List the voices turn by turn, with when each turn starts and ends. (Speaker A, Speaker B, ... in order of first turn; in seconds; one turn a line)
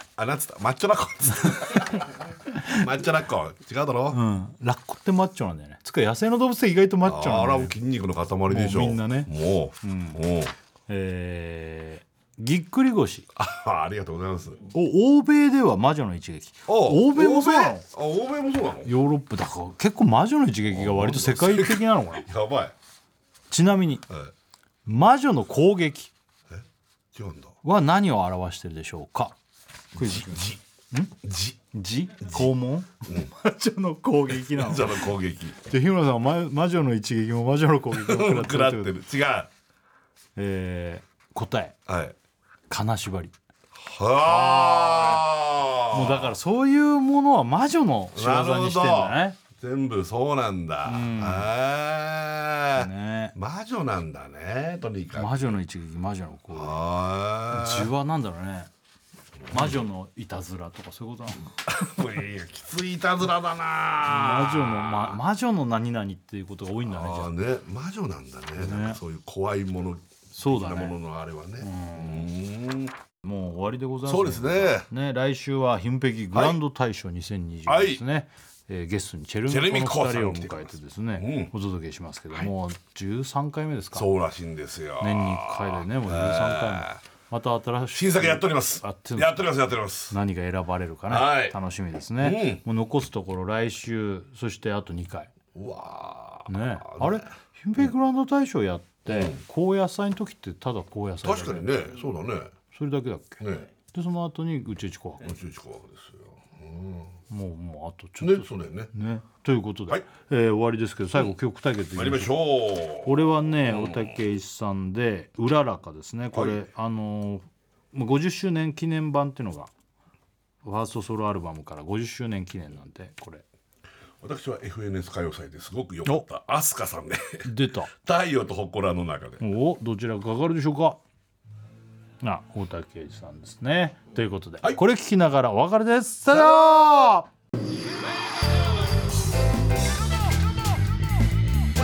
Speaker A: 0.2-2.1
Speaker B: 1.5-1.9
Speaker B: 2.5-2.8
Speaker A: 2.7-4.2
Speaker B: 4.1-7.7
Speaker A: 7.0-10.5
Speaker B: 8.5-9.3
Speaker B: 9.8-10.2
Speaker B: 10.9-13.3
Speaker A: 13.3-14.7
Speaker B: 14.7-17.8
Speaker A: 16.7-18.9
Speaker B: 18.8-22.3
Speaker A: 20.7-22.7
Speaker B: 23.5-24.1
Speaker B: 24.9-26.1
Speaker A: 26.5-27.6
Speaker B: 27.6-29.4
Speaker B: 29.9-31.1
Speaker A: 29.9-30.6
Speaker A: 31.2-31.6
Speaker B: 31.7-35.1
Speaker A: 34.3-35.6
Speaker B: 35.6-39.0
Speaker A: 37.9-39.5
Speaker B: 40.4-41.8
Speaker A: 41.9-42.1
Speaker B: 42.7-43.3
Speaker A: 43.7-46.3
Speaker B: 44.2-45.2
Speaker B: 45.9-49.4
Speaker A: 48.1-55.5
Speaker B: 50.8-51.5
Speaker B: 52.7-53.3
Speaker B: 55.1-56.7
Speaker A: 56.5-57.9
Speaker B: 57.5-58.7
Speaker A: 59.4-59.8
Speaker B: 59.5-61.5
Speaker A: 61.6-65.2
Speaker B: 64.0-67.3
Speaker A: 66.8-72.9
Speaker B: 68.6-69.0
Speaker B: 70.3-71.0
Speaker B: 71.6-72.3
Speaker B: 73.2-84.1
Speaker A: 74.0-74.9
Speaker A: 76.3-76.6
Speaker A: 77.7-78.0
Speaker A: 79.5-81.5
Speaker A: 83.9-87.0
Speaker B: 85.0-89.4
Speaker A: 87.9-90.2
Speaker B: 90.1-95.3
Speaker A: 91.1-91.5
Speaker A: 92.2-92.6
Speaker A: 95.5-97.2
Speaker B: 96.5-101.9
Speaker A: 99.1-99.4
Speaker A: 101.2-102.5
Speaker B: 102.7-105.3
Speaker A: 103.4-103.7
Speaker A: 105.2-107.1
Speaker B: 107.3-112.4
Speaker A: 108.2-108.9
Speaker A: 111.9-114.1
Speaker B: 113.0-119.7
Speaker A: 116.3-116.6
Speaker B: 120.6-123.4
Speaker A: 124.2-129.4
Speaker B: 127.4-127.9
Speaker B: 129.4-131.0
Speaker B: 132.2-137.2
Speaker A: 136.3-137.1